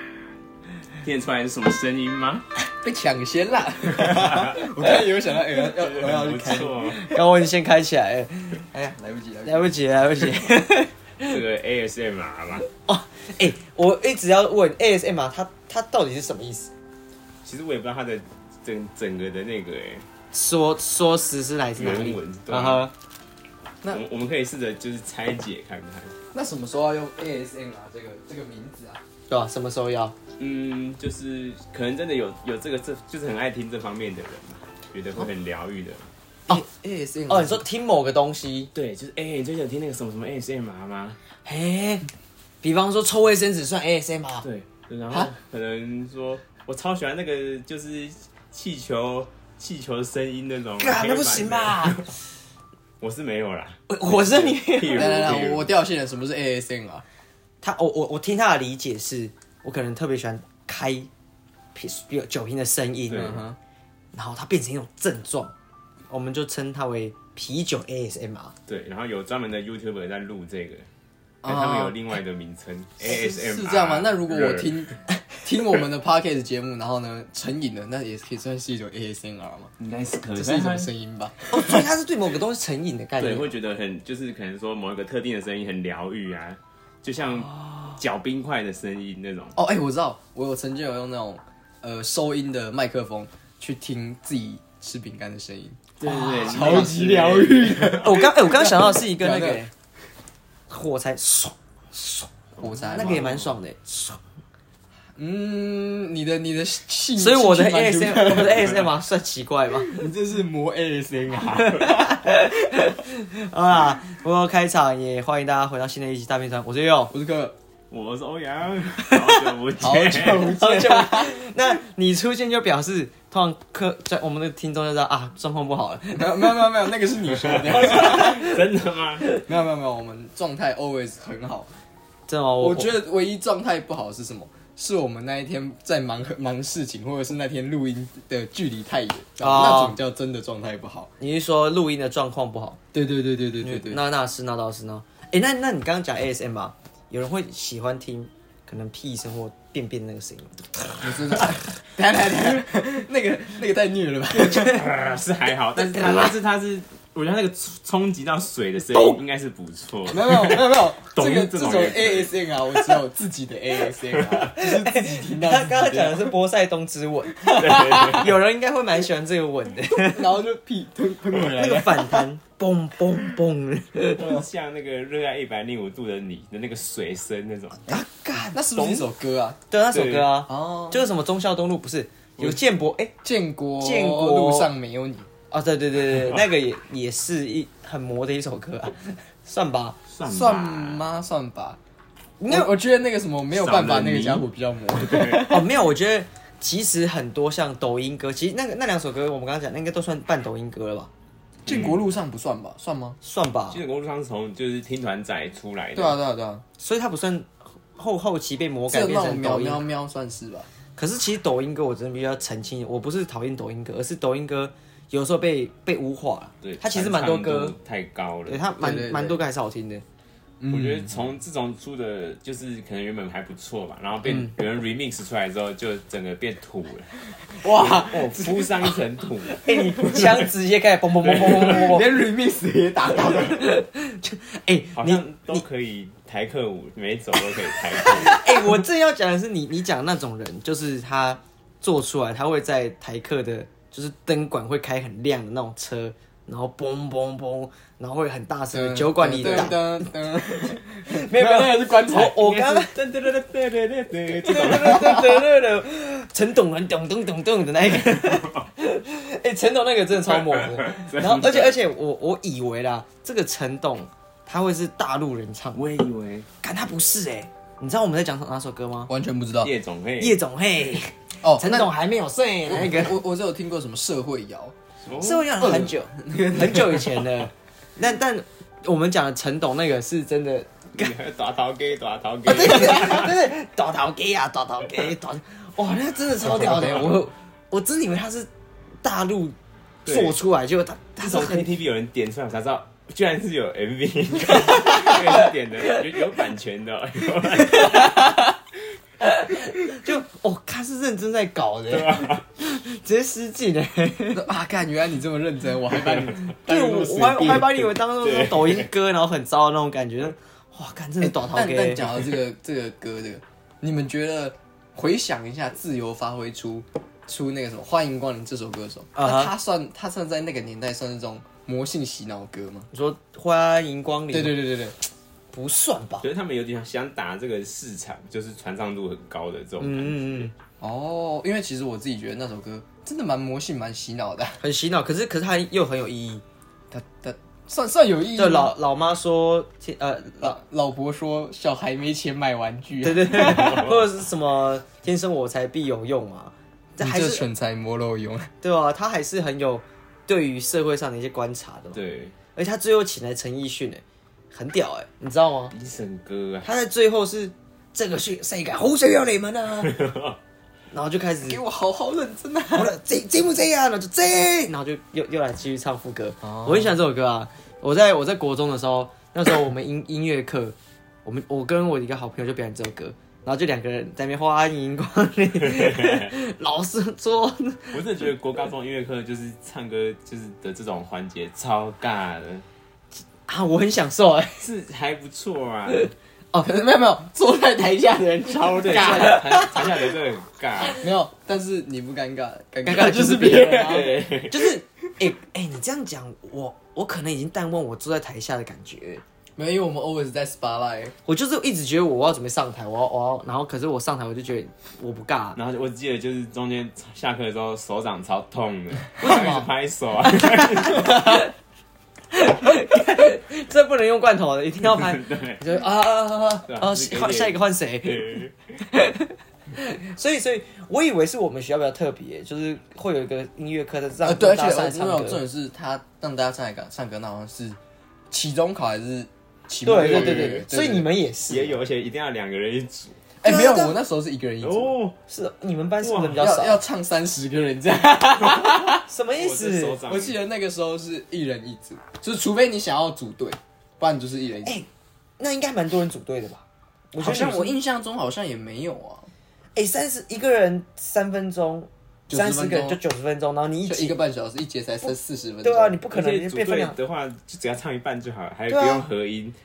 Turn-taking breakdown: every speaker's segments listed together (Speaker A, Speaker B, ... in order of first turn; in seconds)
Speaker A: 1.0-2.5, 4.0-4.7, 5.6-7.0, 11.2-12.7, 17.4-20.1, 21.8-22.9, 23.9-26.1, 30.4-36.0, 38.8-41.2, 44.4-52.1, 53.0-55.7, 63.1-63.4, 68.7-70.9, 71.5-74.9, 79.8-80.9, 83.2-89.6, 96.0-98.2, 102.6-103.5, 117.9-120.5, 127.4-129.3, 154.5-162.3, 164.1-164.4, 167.5-168.3, 174.2-177.9, 179.9-180.3, 190.1-191.0, 193.5-195.5, 201.7-202.0, 203.7-206.2, 216.6-218.7, 220.7-227.1, 227.7-230.5, 231.2-232.0, 235.0-238.4, 252.4-255.2, 258.1-258.6, 260.3-261.8, 265.8-266.5, 269.6-270.4, 275.1-275.6, 280.9-283.4, 286.6-287.1, 290.1-290.4, 291.2-298.2, 301.9-302.4, 306.0-306.5, 308.2-308.9, 326.2-330.5, 343.5-344.0, 351.9-352.4, 355.7-356.7, 359.8-360.4, 375.6-376.3, 377.9-382.6, 384.6-386.1, 388.7-391.0, 393.1-394.7, 405.6-411.4, 414.8-415.6, 416.7-418.5, 430.0-430.6, 431.5-433.2, 434.6-435.2, 436.0-436.4, 439.3-440.4, 456.1-459.6
Speaker B: 2.8-7.0, 8.7-9.8, 26.3-29.0, 36.5-37.6, 54.9-57.0, 63.1-63.6, 71.4-72.0, 73.0-79.7, 80.3-81.9, 89.5-99.7, 102.6-103.4, 105.2-108.8, 109.9-112.3, 117.1-117.5, 119.8-121.3, 126.1-128.4, 129.5-131.7, 132.6-141.1, 142.9-144.0, 151.0-154.8, 160.1-166.3, 167.7-167.9, 169.9-172.3, 178.5-179.6, 180.5-181.0, 183.2-185.3, 190.2-191.8, 192.5-195.7, 201.7-203.2, 205.9-206.6, 208.9-210.7, 218.8-219.4, 220.6-221.1, 227.6-228.8, 231.5-233.7, 248.7-252.6, 254.7-255.0, 269.1-269.7, 271.4-271.9, 272.7-274.8, 275.6-277.4, 304.3-307.9, 311.2-322.9, 324.3-325.0, 330.8-334.6, 336.9-338.7, 340.4-343.9, 347.0-348.5, 361.5-362.9, 366.4-366.9, 386.6-389.9, 391.0-394.1, 399.6-401.1, 424.2-427.8, 428.3-431.1, 433.4-435.0, 436.3-439.0, 440.1-444.8, 447.2-449.3, 452.3-453.0, 453.9-456.0
Speaker C: 7.0-8.6, 9.4-11.4, 12.8-16.7, 20.3-22.9, 29.3-30.2, 37.3-38.7, 41.5-42.1, 42.6-44.5, 50.8-52.0, 53.9-55.4, 57.6-61.1, 61.8-63.4, 64.1-65.5, 66.1-68.5, 81.5-83.5, 96.1-97.0, 97.9-99.7, 100.7-102.3, 102.9-104.2, 107.2-110.0, 111.7-117.1, 120.4-126.7, 127.9-128.6, 132.3-132.9, 139.4-140.0, 141.2-142.8, 143.6-151.1, 155.8-156.3, 158.9-159.2, 164.5-170.3, 171.5-174.3, 177.9-179.0, 179.7-183.2, 183.8-184.7, 185.5-190.0, 192.4-192.7, 195.4-201.1, 203.2-203.8, 206.8-209.8, 211.0-217.8, 218.5-220.0, 224.3-224.5, 229.5-232.1, 233.3-235.6, 238.0-252.9, 254.4-265.9, 266.6-269.1, 270.2-273.2, 275.2-281.1, 282.5-288.5, 289.0-291.7, 294.9-295.4, 297.6-298.4, 299.2-304.4, 306.7-312.1, 319.1-319.5, 322.9-324.6, 325.5-326.2, 329.8-330.5, 334.6-336.4, 338.4-340.6, 343.0-347.4, 348.6-352.0, 352.6-355.7, 356.6-359.9, 360.9-361.6, 362.7-377.9, 383.5-384.6, 385.9-386.6, 388.9-389.8, 392.9-399.2, 401.2-405.6, 409.2-409.7, 410.4-411.5, 412.3-425.4, 429.9-431.8, 433.4-433.9, 435.3-436.8, 439.1-440.1, 445.4-447.8, 449.8-454.1, 455.6-457.0, 458.7-459.1